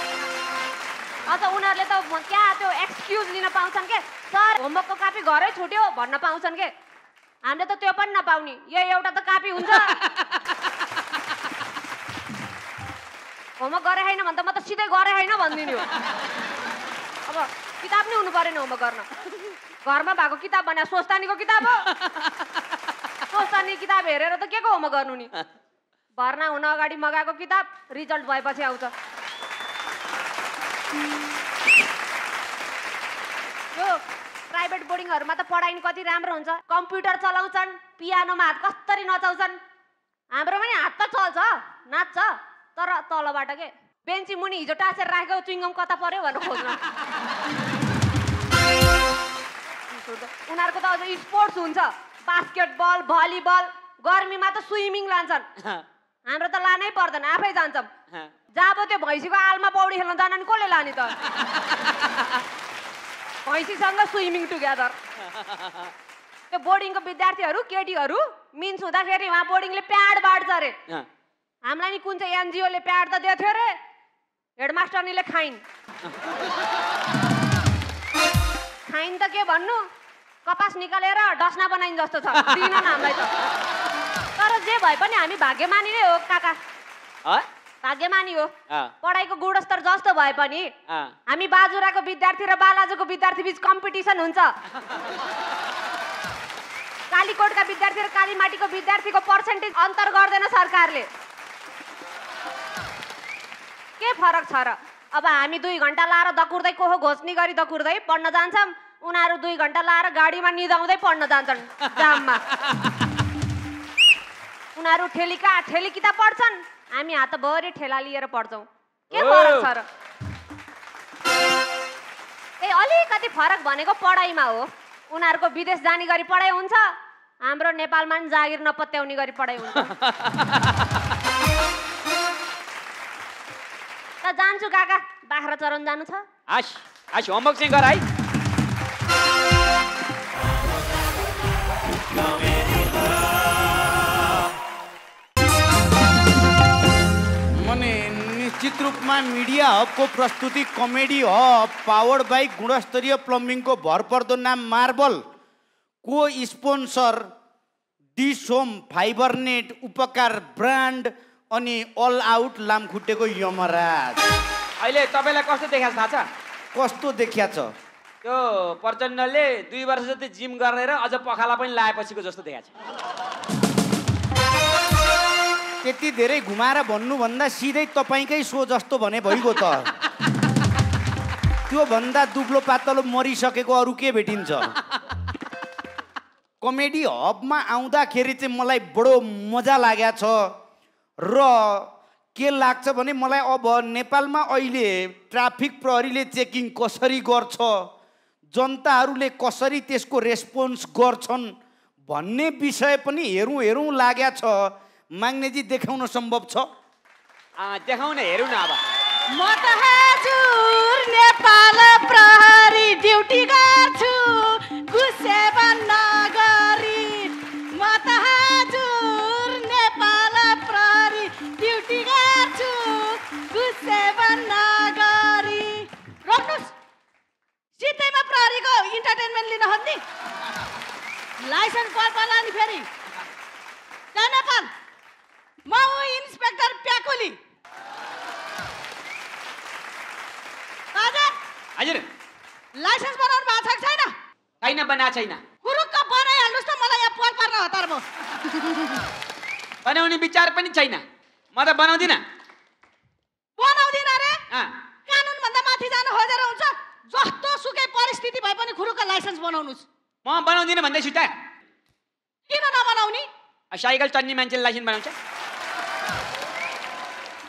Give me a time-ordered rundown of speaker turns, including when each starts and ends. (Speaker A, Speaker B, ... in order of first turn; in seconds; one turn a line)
Speaker A: 1.3-6.7
Speaker A: 7.4-10.0
Speaker A: 13.6-15.9
Speaker A: 17.3-19.1
Speaker A: 19.8-21.9
Speaker A: 23.3-25.3
Speaker A: 26.2-28.9
Speaker A: 33.8-39.6
Speaker A: 40.3-46.8
Speaker A: 49.9-55.4
Speaker A: 56.3-57.9
Speaker A: 58.5-61.1
Speaker A: 63.5-64.9
Speaker B: 65.5-65.9
Speaker A: 66.5-70.7
Speaker A: 71.7-73.7
Speaker A: 74.6-75.6
Speaker A: 78.9-79.8
Speaker A: 80.5-83.3
Speaker A: 84.4-86.6
Speaker A: 87.8-88.5
Speaker A: 89.0-90.7
Speaker A: 91.3-94.5
Speaker A: 97.1-101.1
Speaker A: 104.0-112.4
Speaker A: 114.8-119.8
Speaker B: 119.1-119.7
Speaker A: 122.6-129.9
Speaker B: 129.9-130.5
Speaker A: 134.2-136.2
Speaker B: 136.5-138.0
Speaker C: 147.6-155.2
Speaker C: 156.0-157.3
Speaker C: 158.2-164.2
Speaker B: 164.8-166.2
Speaker C: 166.7-167.7
Speaker B: 168.2-172.7
Speaker C: 175.8-179.9
Speaker C: 181.7-184.7
Speaker C: 186.6-190.5
Speaker C: 191.2-197.8
Speaker C: 198.5-201.5
Speaker C: 202.1-206.7
Speaker B: 207.6-208.8
Speaker D: 209.3-226.7
Speaker D: 227.8-230.0
Speaker D: 231.4-232.8
Speaker D: 234.1-234.7
Speaker D: 235.7-237.4
Speaker D: 240.9-241.3
Speaker B: 241.8-242.0
Speaker D: 242.8-244.1
Speaker B: 244.6-245.5
Speaker D: 245.6-248.0
Speaker B: 249.8-251.0
Speaker B: 251.5-252.2
Speaker D: 253.6-254.4
Speaker D: 255.1-259.8
Speaker B: 260.2-261.3
Speaker D: 262.5-263.2
Speaker B: 263.7-265.1